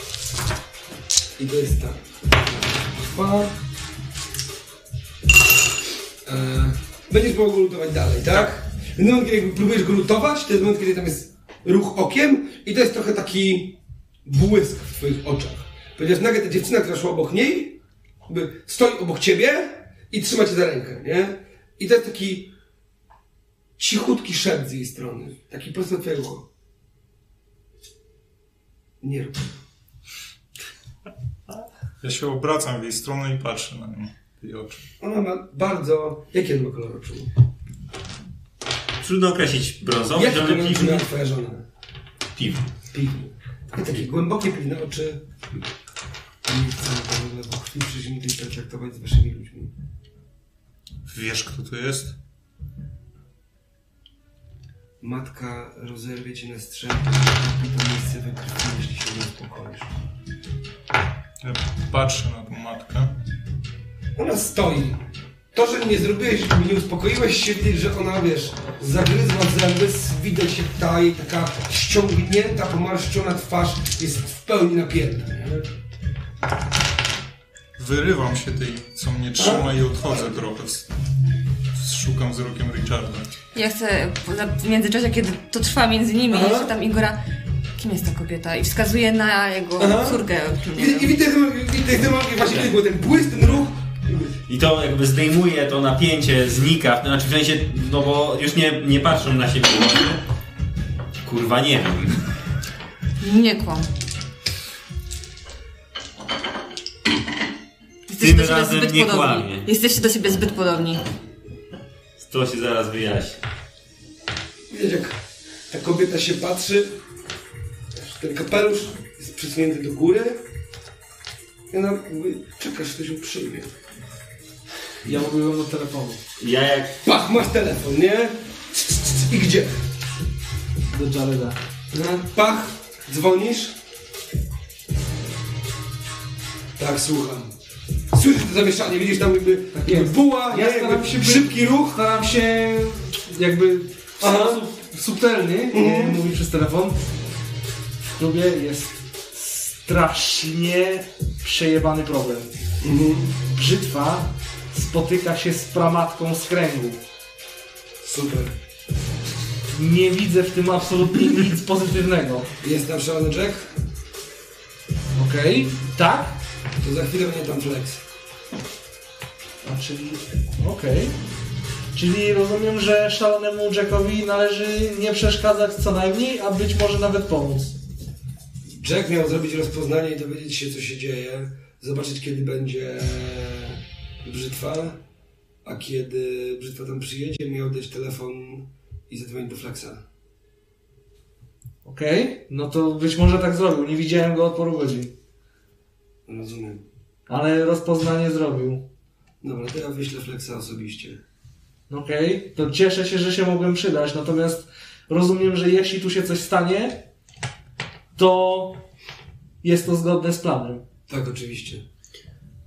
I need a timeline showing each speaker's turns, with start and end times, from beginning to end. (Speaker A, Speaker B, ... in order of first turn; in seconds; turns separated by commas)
Speaker A: 1.4-3.5, Speaker A: 6.2-22.5, Speaker A: 23.8-26.4, Speaker A: 29.0-29.5, Speaker B: 32.0-34.8, Speaker A: 35.0-37.3, Speaker C: 39.0-41.0, Speaker A: 40.1-41.6, Speaker C: 42.3-42.7, Speaker A: 42.9-45.2, Speaker A: 46.4-49.7, Speaker B: 51.1-52.1, Speaker A: 55.0-59.9, Speaker B: 61.4-63.1, Speaker A: 64.2-75.8, Speaker B: 77.8-80.9, Speaker A: 79.4-79.7, Speaker B: 81.7-83.2, Speaker D: 83.5-87.2, Speaker A: 86.3-86.7, Speaker D: 87.8-91.1, Speaker A: 89.8-94.3, Speaker C: 94.5-100.2, Speaker C: 101.2-102.3, Speaker D: 103.2-103.9, Speaker D: 108.1-111.0, Speaker C: 108.2-109.7, Speaker C: 112.2-113.4, Speaker A: 114.7-115.2, Speaker A: 115.7-117.0, Speaker A: 118.0-120.4, Speaker A: 121.7-123.7, Speaker E: 125.0-126.2, Speaker C: 126.4-127.0, Speaker A: 127.0-129.8, Speaker E: 130.9-131.6, Speaker A: 131.9-133.8, Speaker A: 136.8-137.5, Speaker A: 138.1-142.0, Speaker E: 139.8-147.0, Speaker A: 144.2-144.6, Speaker A: 145.7-146.2, Speaker E: 148.1-152.5, Speaker A: 152.8-153.3, Speaker E: 153.5-157.0, Speaker A: 158.0-158.6, Speaker E: 159.7-162.5, Speaker A: 162.6-163.7, Speaker E: 165.1-166.4, Speaker A: 166.8-168.0, Speaker E: 169.6-171.2, Speaker E: 171.9-177.8, Speaker A: 178.7-185.0, Speaker A: 185.6-190.0, Speaker E: 191.8-195.1, Speaker A: 196.2-196.8, Speaker E: 197.3-198.8, Speaker A: 199.4-201.2, Speaker E: 201.9-207.0, Speaker E: 208.1-208.8, Speaker E: 209.6-210.8, Speaker A: 211.1-211.8